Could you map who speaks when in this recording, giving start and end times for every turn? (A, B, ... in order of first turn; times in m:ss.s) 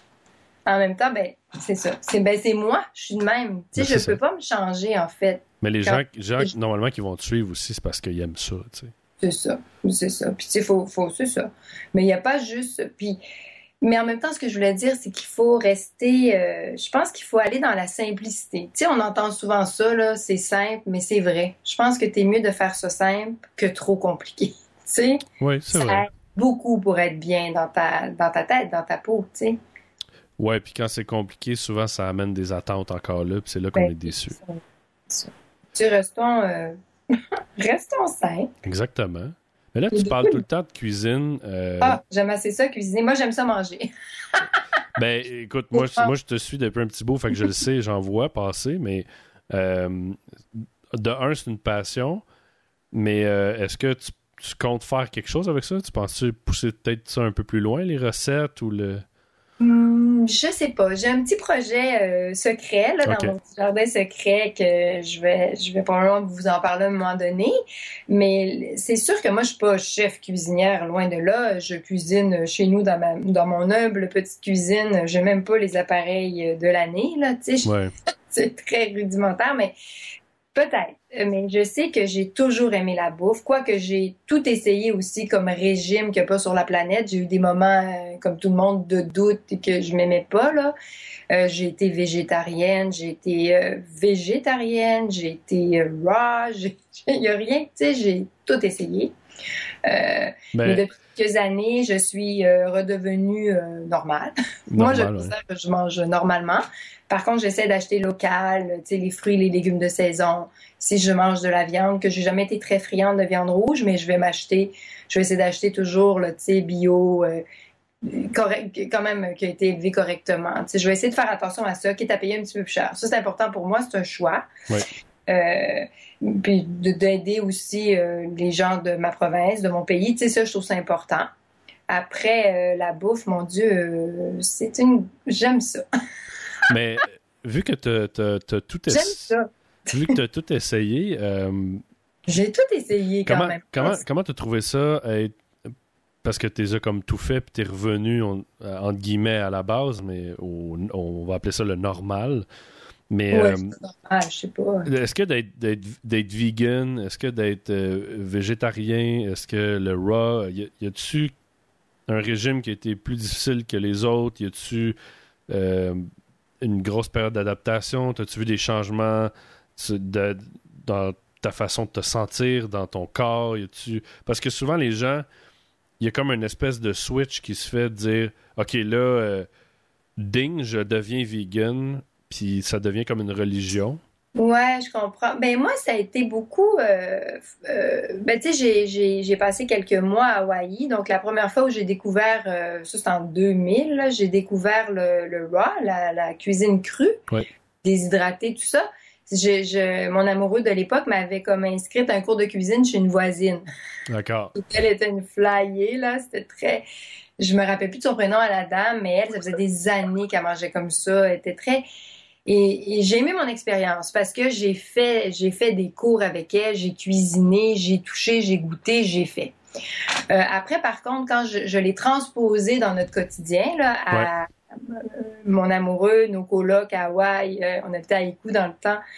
0:00.7-0:06.5 A
0:03.8-0:04.2 B
0:05.6-0:08.9 B
0:09.2-0:13.2 A
0:13.8-0:29.6 A
0:25.4-0:26.0 B
0:30.4-0:34.4 B
0:33.7-0:36.8 A
0:37.6-0:38.5 A
0:38.6-0:42.0 B
0:39.9-0:40.4 A
0:41.8-0:44.6 A
0:45.0-0:52.2 B
0:45.7-0:46.1 A
0:52.9-0:59.0 B
0:59.6-1:07.6 A
1:03.0-1:03.3 B
1:08.1-1:17.7 A
1:17.6-1:17.9 B
1:18.3-1:19.7 A
1:20.5-1:30.7 A
1:31.3-1:39.1 A
1:39.8-1:57.4 A
1:40.5-1:40.8 B
1:44.7-1:45.3 B
1:58.0-2:04.5 A
2:05.3-2:11.3 A
2:11.9-2:15.8 A
2:16.7-2:19.3 B
2:18.9-2:20.1 A
2:19.9-2:21.8 B
2:22.3-2:24.0 A
2:23.2-2:25.7 B
2:26.2-2:32.4 B
2:33.1-2:33.8 B
2:33.3-2:34.9 A
2:34.9-2:41.3 B
2:42.1-2:45.0 B
2:45.5-2:46.0 B
2:46.6-2:55.2 B
2:56.0-2:59.5 B
3:00.2-3:04.0 B
3:04.4-3:17.2 A
3:17.8-3:23.6 A
3:24.1-3:24.5 B
3:24.5-3:26.8 A
3:27.4-3:31.8 A
3:32.4-3:39.5 A
3:40.3-3:49.0 A